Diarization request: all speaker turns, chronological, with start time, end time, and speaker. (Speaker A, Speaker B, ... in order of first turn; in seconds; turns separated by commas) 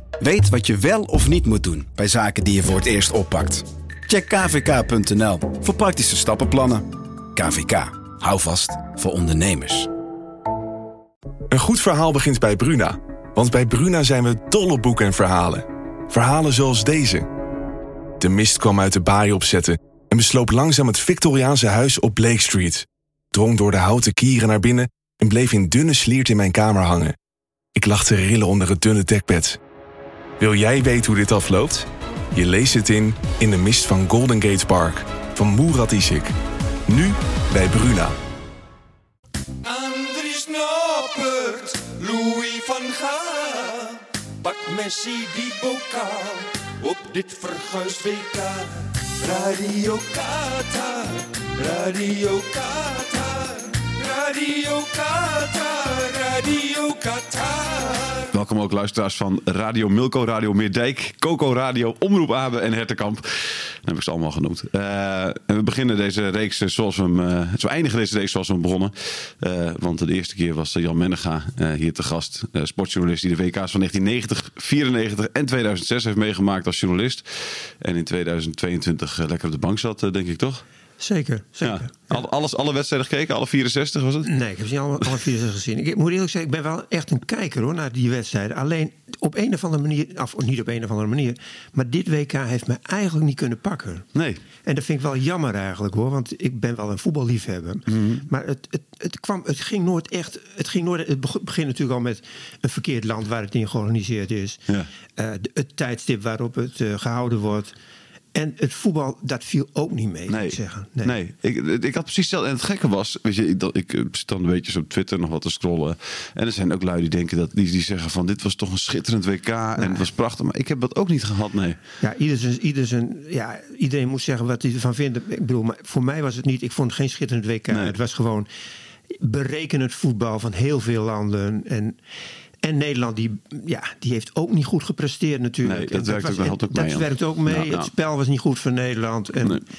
Speaker A: 0.2-6.8, Speaker B: 2.7-3.6, Speaker B: 5.6-6.8, Speaker A: 7.4-9.9, Speaker B: 11.5-17.3, Speaker B: 18.2-27.1, Speaker B: 27.8-29.6, Speaker B: 30.4-36.3, Speaker B: 36.9-38.1, Speaker C: 39.7-43.8, Speaker D: 39.9-43.9, Speaker C: 44.5-58.0, Speaker D: 44.9-46.1, Speaker D: 47.0-48.5, Speaker D: 50.2-50.8, Speaker D: 54.5-57.9, Speaker E: 58.3-77.3, Speaker E: 77.8-80.6, Speaker D: 81.0-82.3, Speaker E: 81.6-84.3, Speaker D: 84.2-94.1, Speaker E: 94.2-94.4, Speaker D: 94.6-104.6, Speaker E: 97.9-98.2, Speaker D: 105.2-107.8, Speaker D: 108.3-111.2, Speaker E: 110.3-121.8, Speaker D: 119.8-120.1, Speaker D: 122.0-128.5, Speaker E: 127.7-128.0, Speaker D: 129.1-132.0, Speaker D: 132.6-139.6, Speaker E: 135.6-137.9